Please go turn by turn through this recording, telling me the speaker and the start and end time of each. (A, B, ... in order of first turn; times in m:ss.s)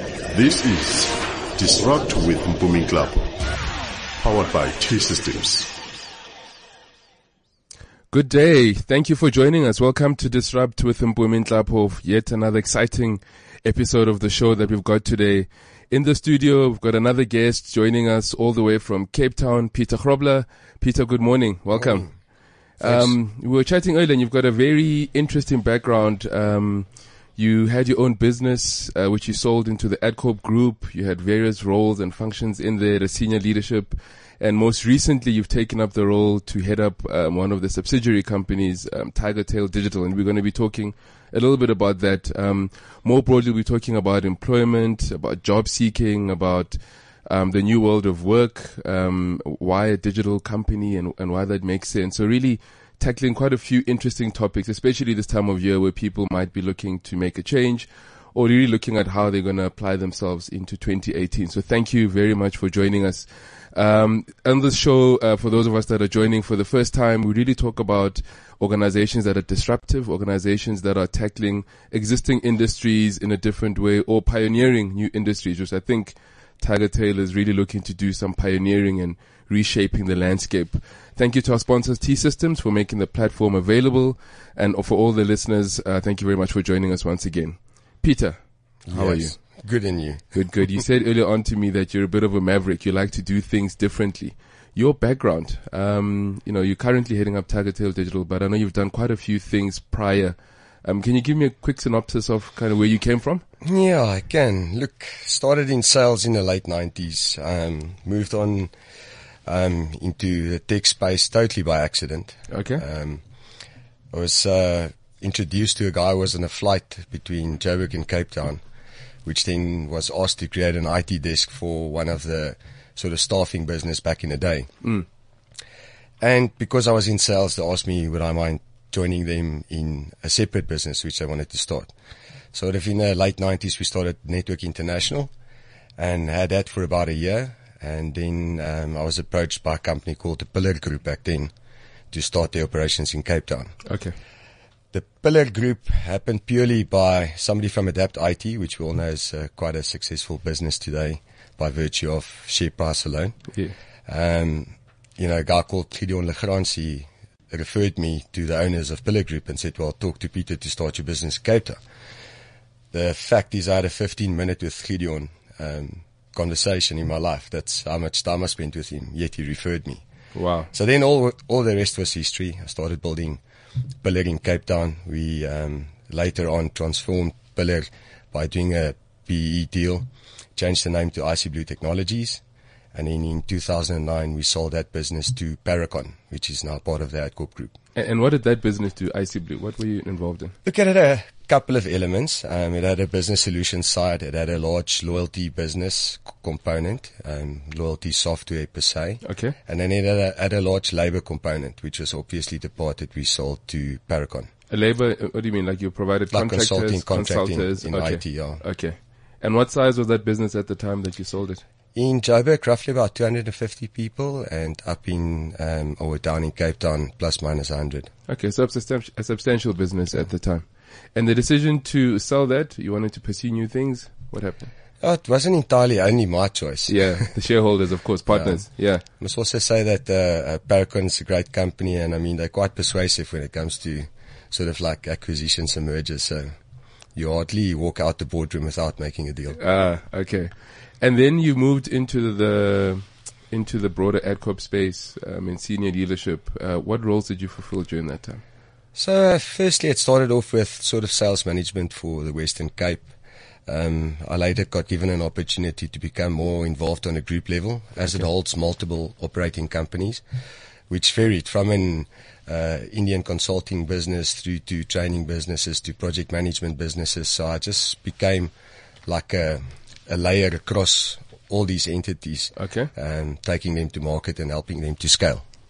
0:00.3-0:03.3 A
0:04.2-0:05.7 A
0:08.1-1:29.4 B
0:21.8-0:22.2 C
0:22.8-0:23.2 C
1:28.8-1:30.3 C
1:30.3-1:43.4 B
1:43.6-1:48.7 C
1:49.4-1:53.2 C
1:52.5-1:52.8 B
1:54.1-1:58.6 C
1:59.2-2:04.7 C
2:06.2-2:11.9 C
2:12.5-2:15.3 C
2:16.0-2:21.5 C
2:22.1-2:23.7 C
2:23.8-2:24.1 B
2:24.9-2:33.4 C
2:34.1-2:41.8 C
2:42.9-2:50.0 C
2:50.3-2:50.7 B
2:50.7-2:53.4 C
2:54.0-3:02.4 C
3:02.9-3:07.8 C
3:07.9-3:10.5 B
3:10.6-3:24.5 C
3:19.2-3:19.5 B
3:24.7-3:31.6 B
3:26.3-3:28.6 C
3:31.9-3:38.1 C
3:38.3-3:44.7 B
3:45.0-3:47.0 C
3:46.9-3:49.0 B
3:48.3-3:56.5 C
3:57.1-3:59.6 C
3:59.6-4:08.4 B
4:08.9-4:13.1 C
4:13.7-4:20.2 C
4:20.9-4:28.5 C
4:29.0-4:35.4 C
4:32.6-4:32.9 B